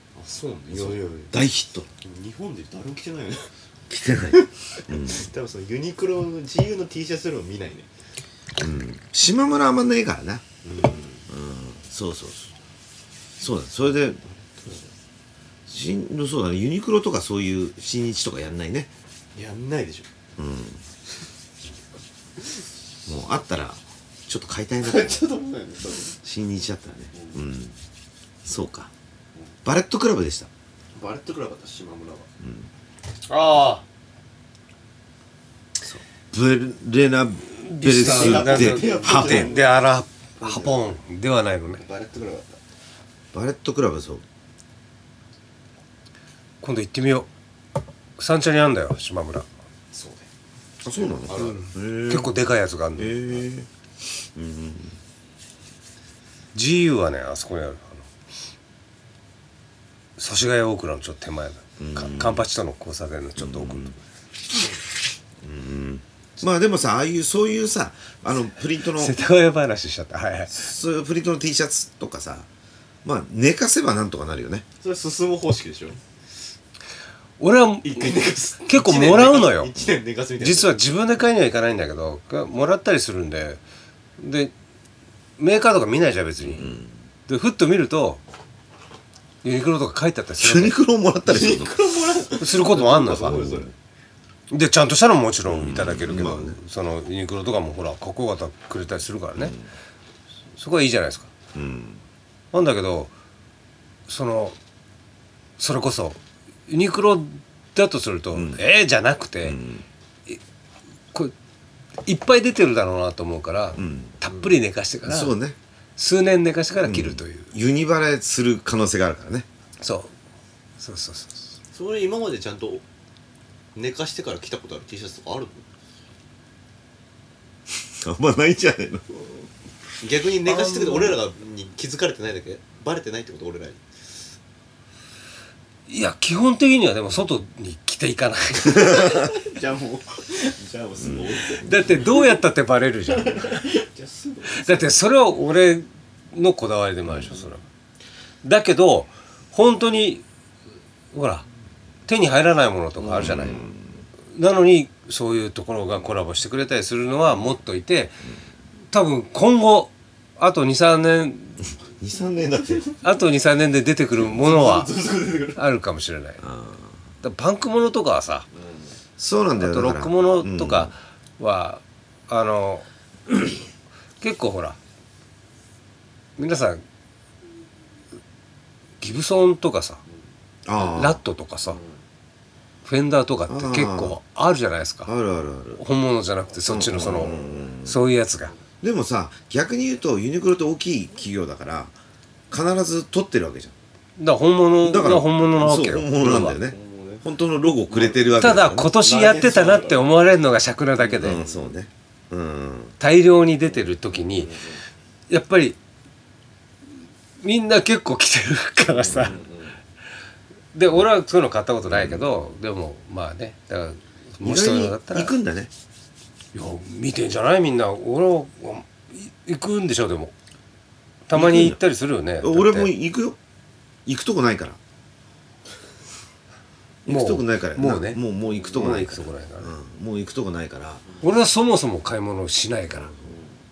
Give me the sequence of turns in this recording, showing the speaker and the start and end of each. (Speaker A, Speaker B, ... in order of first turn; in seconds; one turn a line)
Speaker A: 0.1-1.3
Speaker B: 0.7-1.9
Speaker A: 2.0-3.5
Speaker B: 3.9-5.3
Speaker A: 4.3-7.9
Speaker B: 8.6-10.4
Speaker A: 10.6-11.2
Speaker B: 11.3-12.5
Speaker B: 13.4-14.2
Speaker A: 14.2-14.9
Speaker B: 15.7-18.9
Speaker A: 19.3-20.1
Speaker B: 20.4-20.8
Speaker B: 23.1-25.2
Speaker A: 24.8-26.1
Speaker B: 26.2-27.8
Speaker B: 28.4-28.9
Speaker B: 29.6-30.5
Speaker A: 30.9-32.3
Speaker B: 32.4-32.7
Speaker C: 33.3-33.8
Speaker B: 35.8-39.5
Speaker C: 37.6-41.8
Speaker A: 37.9-39.8
Speaker A: 40.4-40.9
Speaker A: 41.7-42.6
Speaker B: 43.3-44.2
Speaker C: 46.6-47.3
Speaker C: 48.2-49.5
Speaker A: 49.9-50.3
Speaker B: 50.8-52.3
Speaker A: 51.0-51.6
Speaker C: 51.3-53.4
Speaker B: 53.0-53.7
Speaker B: 54.3-55.0
Speaker C: 56.5-58.0
Speaker C: 60.2-64.0
Speaker B: 61.8-62.5
Speaker B: 63.4-63.9
Speaker B: 65.4-69.2
Speaker C: 68.9-70.6
Speaker B: 70.5-72.5
Speaker B: 73.0-74.6
Speaker A: 74.8-76.0
Speaker C: 77.4-79.7
Speaker A: 77.8-80.7
Speaker C: 80.4-83.6
Speaker C: 84.2-84.5
Speaker C: 85.4-88.2
Speaker B: 86.5-86.9
Speaker C: 89.4-90.8
Speaker B: 90.4-91.9
Speaker A: 91.2-93.7
Speaker C: 92.3-93.4
Speaker B: 93.3-93.7
Speaker C: 94.5-99.5
Speaker B: 95.4-96.6
Speaker B: 99.4-99.6
Speaker C: 100.6-101.3
Speaker B: 101.5-102.0
Speaker C: 102.5-103.1
Speaker C: 104.1-104.6
Speaker C: 105.6-109.6
Speaker B: 108.3-108.6
Speaker B: 109.4-109.8
Speaker C: 112.0-115.3
Speaker B: 113.8-114.1
Speaker B: 115.1-115.6
Speaker C: 116.0-117.5
Speaker B: 116.8-119.5
Speaker C: 119.8-120.1
Speaker C: 120.8-121.4
Speaker A: 121.7-122.8
Speaker A: 123.7-125.7
Speaker B: 127.8-129.5
Speaker A: 130.0-133.8
Speaker C: 130.4-131.2
Speaker C: 135.9-139.0
Speaker A: 138.7-142.3
Speaker C: 141.6-143.7
Speaker A: 143.1-145.0
Speaker C: 144.5-147.6
Speaker C: 148.4-150.2
Speaker C: 151.1-151.4
Speaker C: 152.1-153.6
Speaker A: 153.0-153.7
Speaker B: 153.2-153.8
Speaker C: 154.3-158.2
Speaker C: 158.9-161.7
Speaker B: 162.0-162.8
Speaker A: 162.6-162.9
Speaker C: 163.0-164.9
Speaker A: 164.2-165.6
Speaker C: 165.5-166.4
Speaker B: 166.4-166.9
Speaker C: 167.2-168.5
Speaker A: 168.6-168.9
Speaker B: 169.2-170.9
Speaker C: 169.6-172.9
Speaker C: 174.2-174.8
Speaker C: 176.4-176.8
Speaker C: 179.0-180.0
Speaker B: 180.6-181.2
Speaker C: 180.9-181.8
Speaker C: 182.8-185.1
Speaker B: 183.5-184.2
Speaker B: 185.0-185.8
Speaker C: 185.8-188.5
Speaker B: 186.7-187.9
Speaker A: 187.3-187.6
Speaker B: 188.8-191.9
Speaker B: 192.5-193.7
Speaker C: 194.2-196.6
Speaker B: 194.8-198.9
Speaker A: 196.3-197.3
Speaker A: 197.9-198.3
Speaker C: 198.4-201.4
Speaker A: 198.9-200.3
Speaker A: 201.0-201.7
Speaker B: 201.2-202.9
Speaker C: 203.0-204.6
Speaker A: 204.1-204.8
Speaker C: 205.3-205.8
Speaker C: 207.4-209.4
Speaker A: 209.1-209.8
Speaker C: 210.7-215.3
Speaker B: 211.9-212.2
Speaker B: 214.4-215.7
Speaker C: 216.5-220.3
Speaker C: 221.3-222.9
Speaker B: 221.3-221.8
Speaker B: 222.4-223.4
Speaker B: 224.1-224.8
Speaker B: 227.0-231.0
Speaker C: 227.1-229.7
Speaker C: 231.2-233.1
Speaker B: 232.9-233.3
Speaker A: 233.2-233.6